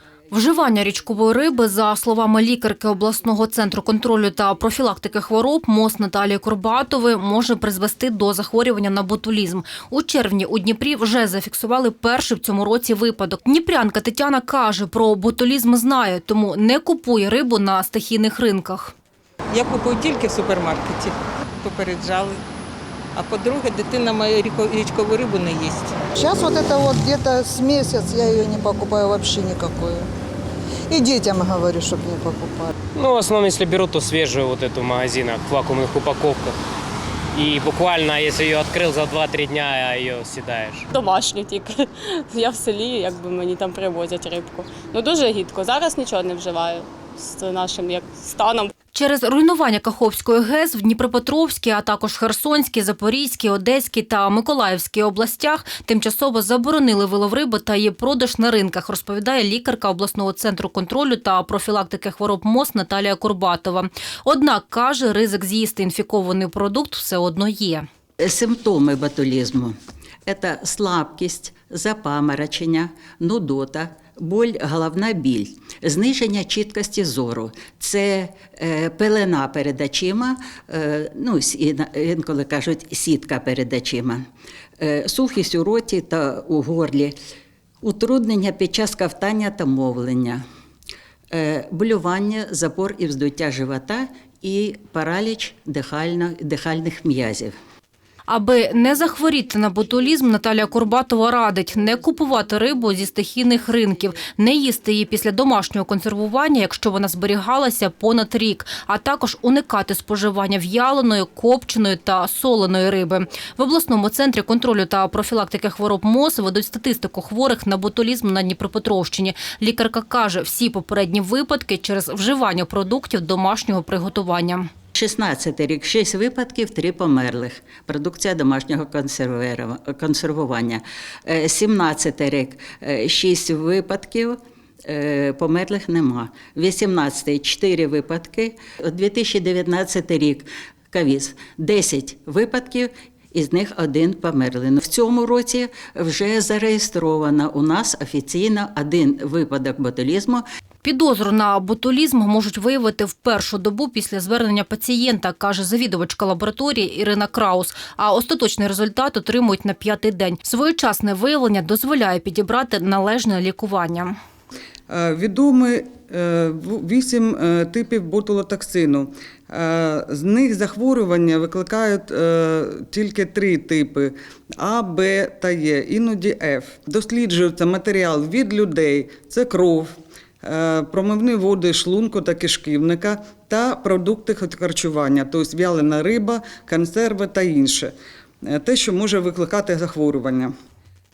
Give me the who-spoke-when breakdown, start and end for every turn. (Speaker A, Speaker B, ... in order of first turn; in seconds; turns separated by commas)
Speaker A: 0.3-18.9, Speaker B: 19.5-22.4, Speaker B: 23.1-25.9, Speaker C: 26.1-30.1, Speaker C: 30.9-32.7, Speaker D: 32.9-36.5, Speaker D: 37.3-40.9, Speaker E: 40.9-48.7, Speaker A: 48.9-67.8, Speaker F: 68.2-84.2, Speaker F: 84.8-87.1, Speaker F: 87.8-90.4, Speaker F: 91.3-97.5, Speaker A: 98.3-124.7, Speaker F: 124.9-150.4, Speaker A: 150.8-164.1, Speaker G: 164.9-187.9, Speaker G: 188.4-190.5